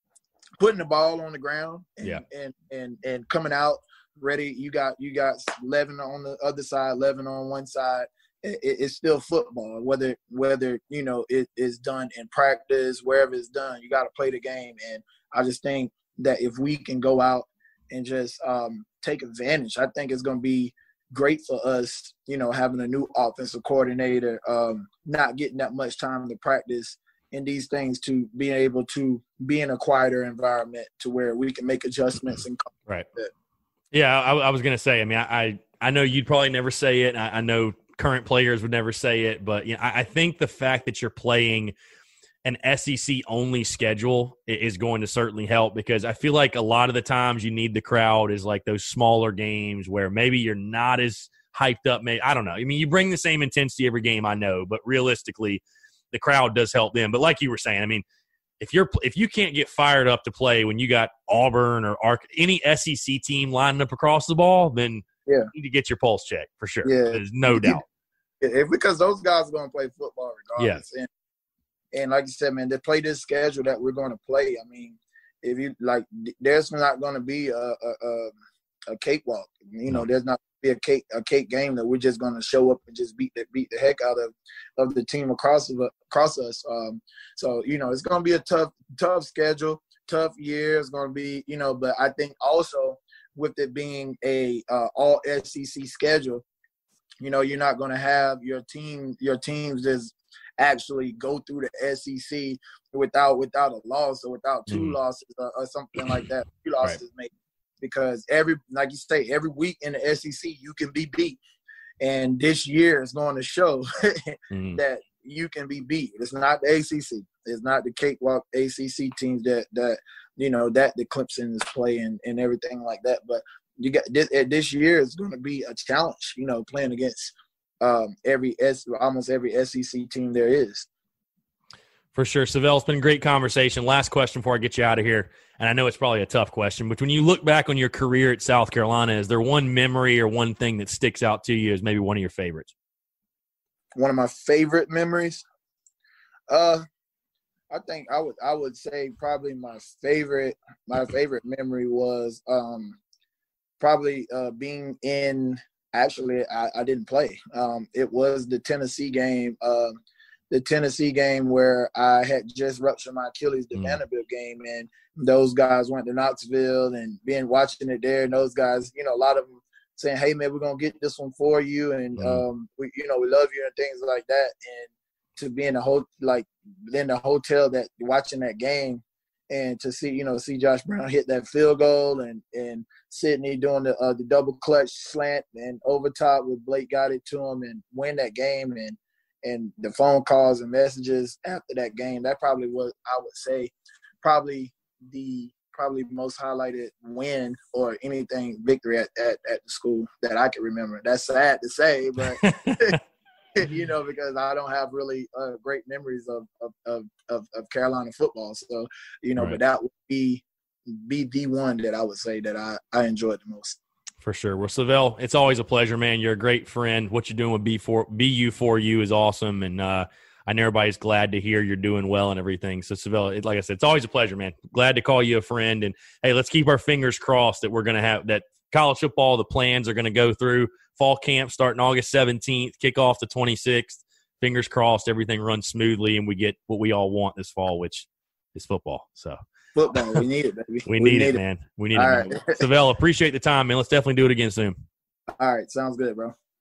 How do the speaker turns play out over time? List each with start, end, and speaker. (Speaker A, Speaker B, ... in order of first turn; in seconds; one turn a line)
Speaker A: 0.6-33.3
Speaker B: 32.1-33.1
Speaker B: 33.9-41.7
Speaker B: 42.4-58.0
Speaker B: 58.6-67.8
Speaker A: 66.8-67.8
Speaker A: 68.4-71.1
Speaker B: 70.6-70.8
Speaker A: 71.9-78.3
Speaker A: 78.9-96.4
Speaker A: 97.2-111.4
Speaker B: 104.7-105.0
Speaker B: 106.0-106.2
Speaker A: 112.0-130.9
Speaker B: 114.5-114.8
Speaker B: 132.1-142.7
Speaker A: 143.9-145.4
Speaker A: 146.5-146.8
Speaker A: 147.7-153.0
Speaker A: 153.8-160.0
Speaker A: 160.5-202.9
Speaker B: 163.7-164.0
Speaker B: 172.2-172.4
Speaker B: 202.4-203.0
Speaker A: 203.6-213.8
Speaker B: 214.2-239.4
Speaker A: 239.7-241.4
Speaker B: 239.9-240.2
Speaker B: 240.8-244.8
Speaker A: 241.9-242.6
Speaker A: 245.4-246.3